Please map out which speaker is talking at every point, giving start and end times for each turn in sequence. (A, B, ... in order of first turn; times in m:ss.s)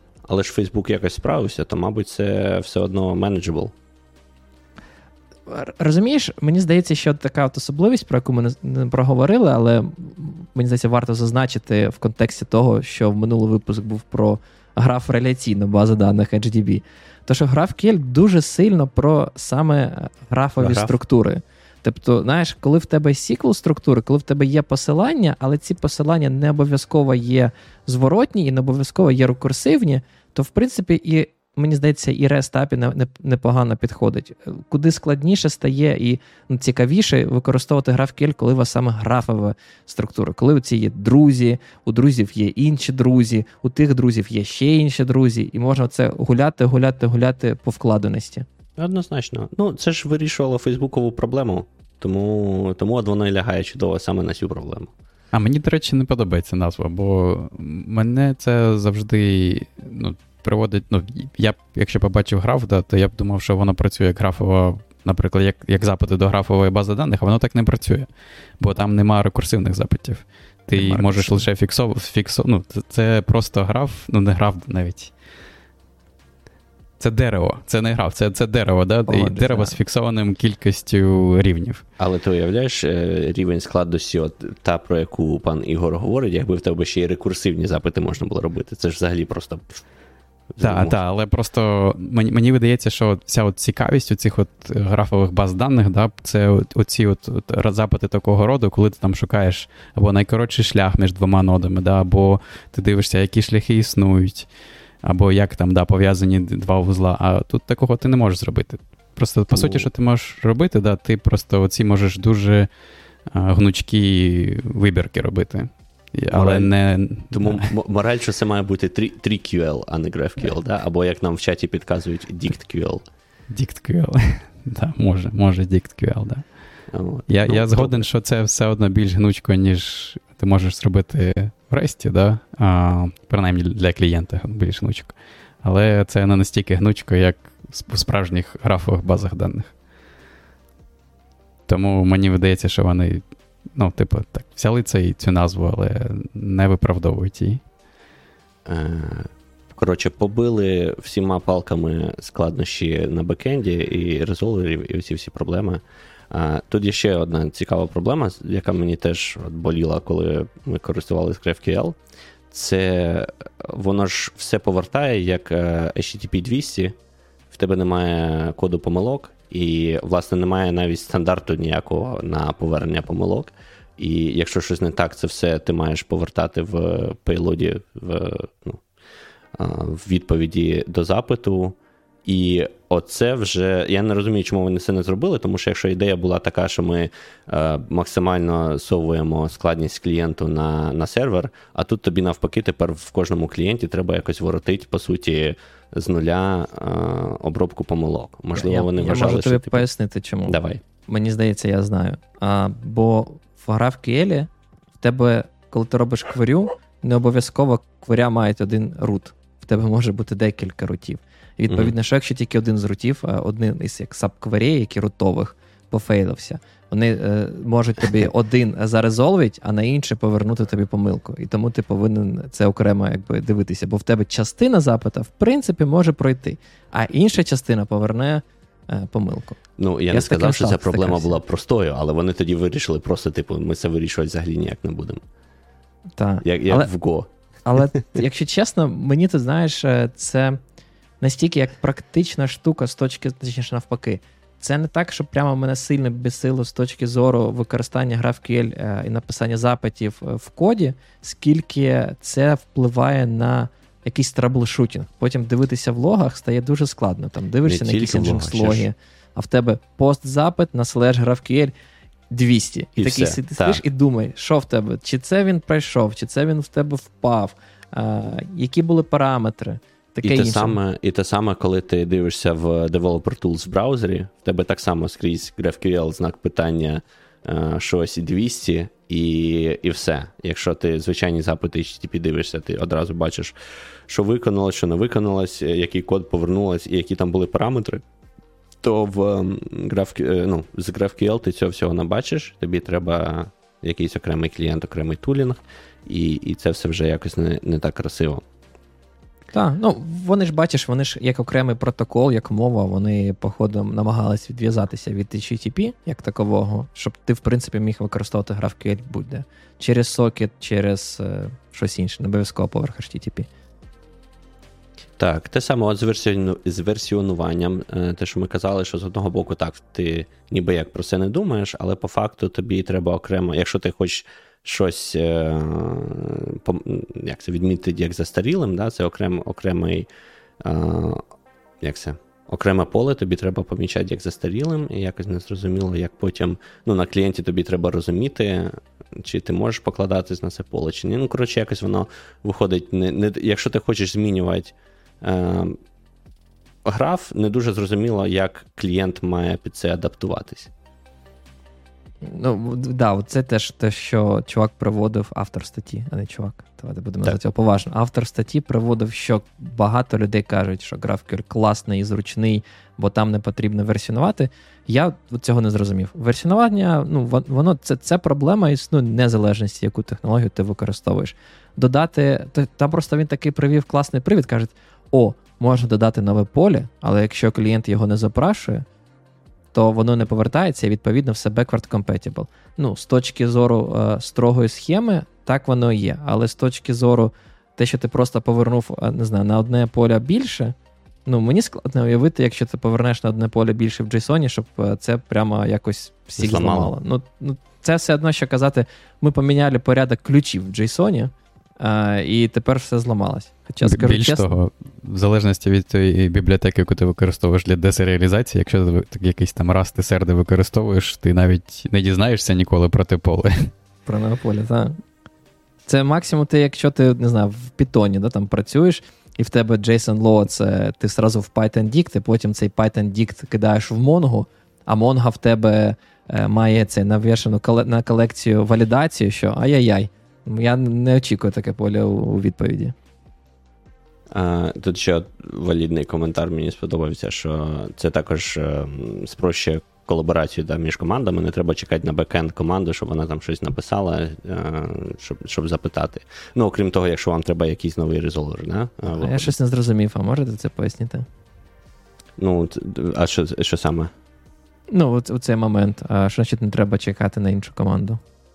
0:00.3-0:03.7 A
0:05.5-0:48.4 B
0:20.6-0:21.0 A
0:48.8-0:54.9 A
0:55.3-1:08.1 C
1:08.6-1:15.1 C
1:10.7-1:11.4 B
1:17.0-1:21.8 C
1:19.1-1:19.8 B
1:22.0-1:29.8 A
1:30.5-1:31.0 A
1:30.6-1:44.5 C
1:45.0-1:52.7 C
1:49.5-1:49.9 A
1:53.3-1:57.7 C
1:56.3-1:56.7 A
1:57.3-2:03.0 A
2:03.5-2:06.4 C
2:06.9-2:08.1 A
2:07.3-2:19.7 C
2:21.7-2:27.6 C
2:28.6-2:42.0 A
2:42.5-2:46.9 A
2:47.5-2:58.8 A
2:59.5-3:19.8 A
3:18.6-3:24.5 B
3:20.5-3:20.8 A
3:25.0-3:49.6 B
3:49.8-3:55.2 A
3:50.1-3:51.4 B
3:56.2-3:56.9 B
3:56.4-3:57.3 A
3:57.6-4:00.6 B
4:01.2-4:21.7 B
4:17.7-4:18.9 A
4:22.3-4:30.8 B
4:23.0-4:23.8 A
4:30.2-4:43.5 A
4:44.1-4:48.0 A
4:48.8-4:58.4 A
4:59.5-5:13.5 B
5:15.2-5:30.1 A
5:30.6-5:31.2 A
5:31.8-5:45.8 A
5:46.8-5:50.7 A
5:52.2-6:18.8 B
6:19.7-6:30.7 B
6:31.2-6:44.5 B
6:36.4-6:36.9 A
6:43.8-6:53.7 C
6:54.0-6:55.0 B
6:55.8-7:12.9 B
7:14.3-7:29.5 A
7:29.1-7:31.2 B
7:32.4-7:34.1 A
7:34.9-7:38.2 B